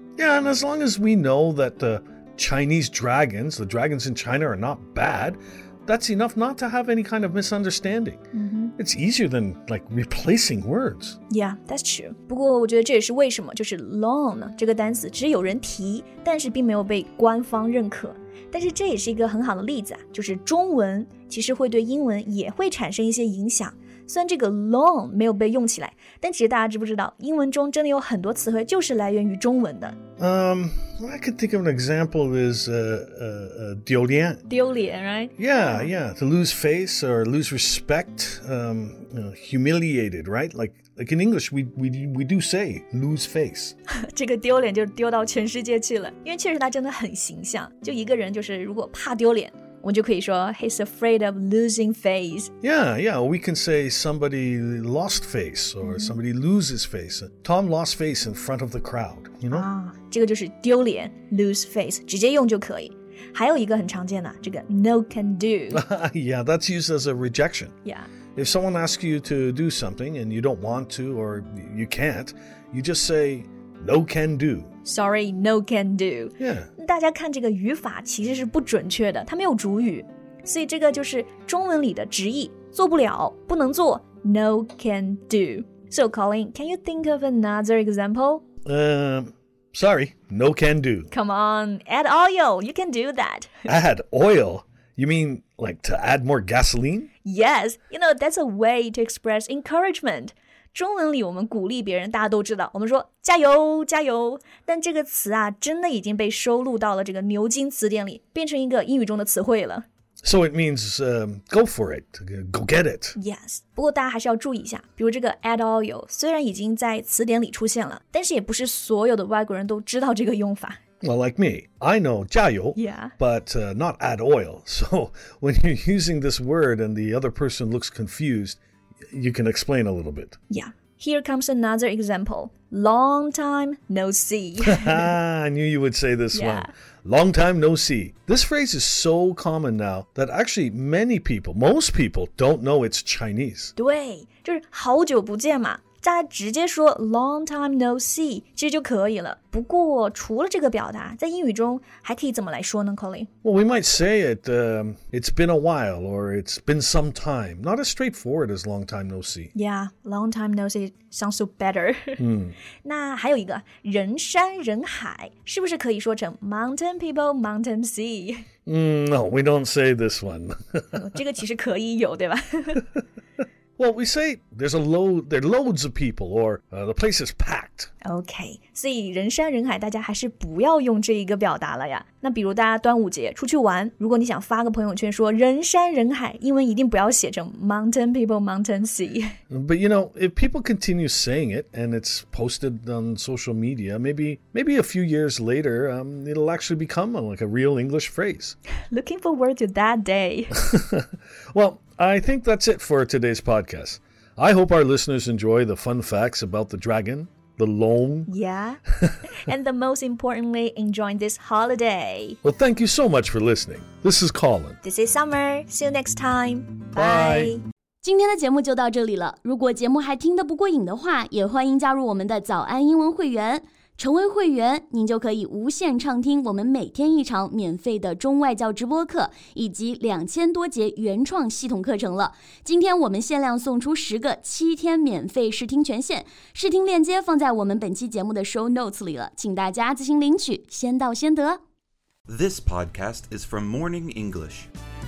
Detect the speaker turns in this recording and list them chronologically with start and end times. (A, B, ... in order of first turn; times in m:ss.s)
0:00.2-0:08.2 A
0:08.3-0:08.8 B
0:08.8-0:11.2 A
0:11.3-0:30.0 B
0:30.2-0:34.4 A
0:34.5-0:35.9 B
0:35.4-0:43.8 A
0:43.9-0:52.5 B
0:52.6-0:59.7 A
0:55.8-0:56.2 B
0:59.5-1:05.8 B
1:05.7-1:07.8 A
1:07.8-1:08.1 B
1:08.4-1:14.7 A
1:14.8-1:28.4 B
1:16.4-1:16.7 A
1:28.7-1:31.1 A
1:31.1-1:33.5 B
1:33.7-1:37.1 A
1:37.2-1:49.9 B
1:50.2-1:53.2 A
1:53.2-2:00.8 B
2:01.0-2:08.6 A
2:02.8-2:03.1 B
2:09.1-2:10.4 A
2:10.5-2:15.2 B
2:14.6-2:23.7 A
2:16.3-2:16.7 B
2:23.8-2:33.3 B
2:33.4-2:39.5 A
2:39.6-2:42.2 B
2:42.2-2:42.6 A
2:42.8-2:48.4 B
2:48.7-2:51.0 A
2:50.9-2:52.9 B
2:53.8-2:57.9 A
2:58.0-3:09.4 B
3:09.5-3:18.6 A
3:18.9-3:20.6 B
3:20.6-3:28.3 A
3:28.3-3:32.4 B
3:32.4-3:34.8 A
3:34.8-3:37.6 B
3:36.9-3:37.6 A
3:38.0-4:01.6 C
4:02.3-4:04.7 D